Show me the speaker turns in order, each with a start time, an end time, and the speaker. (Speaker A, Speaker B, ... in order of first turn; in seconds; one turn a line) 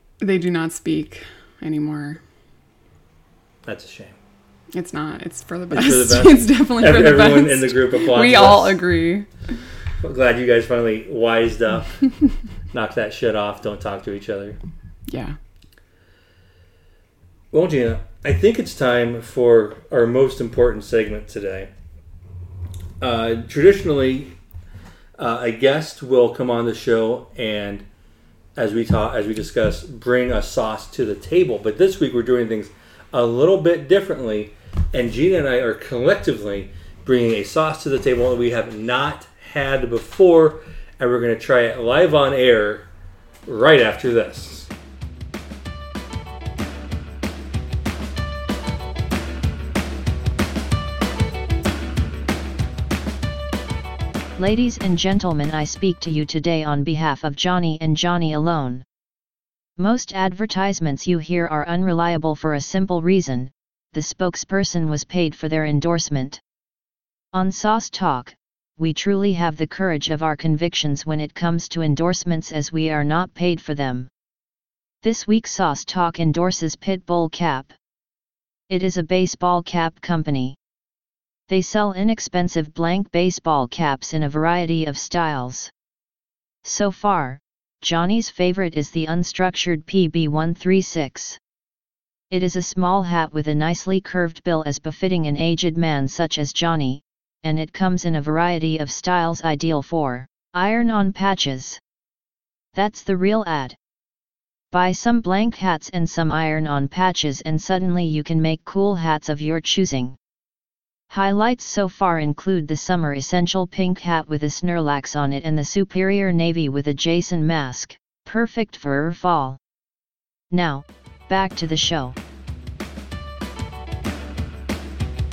Speaker A: 0.2-2.2
Speaker B: 3.6-4.1
Speaker A: 4.7-9.3
Speaker B: 5.7-8.8
Speaker B: 10.0-12.0
Speaker B: 12.7-14.6
Speaker A: 15.1-15.3
Speaker B: 17.5-21.7
Speaker B: 23.0-24.3
Speaker B: 25.2-27.8
Speaker B: 28.6-42.9
Speaker B: 43.5-44.7
Speaker C: 54.4-58.8
Speaker C: 59.8-66.4
Speaker C: 67.3-74.1
Speaker C: 75.0-77.7
Speaker C: 78.7-80.5
Speaker C: 81.5-85.7
Speaker C: 86.6-91.4
Speaker C: 92.3-101.8
Speaker C: 102.7-103.8
Speaker C: 104.7-110.2
Speaker C: 111.1-119.6
Speaker C: 120.5-122.2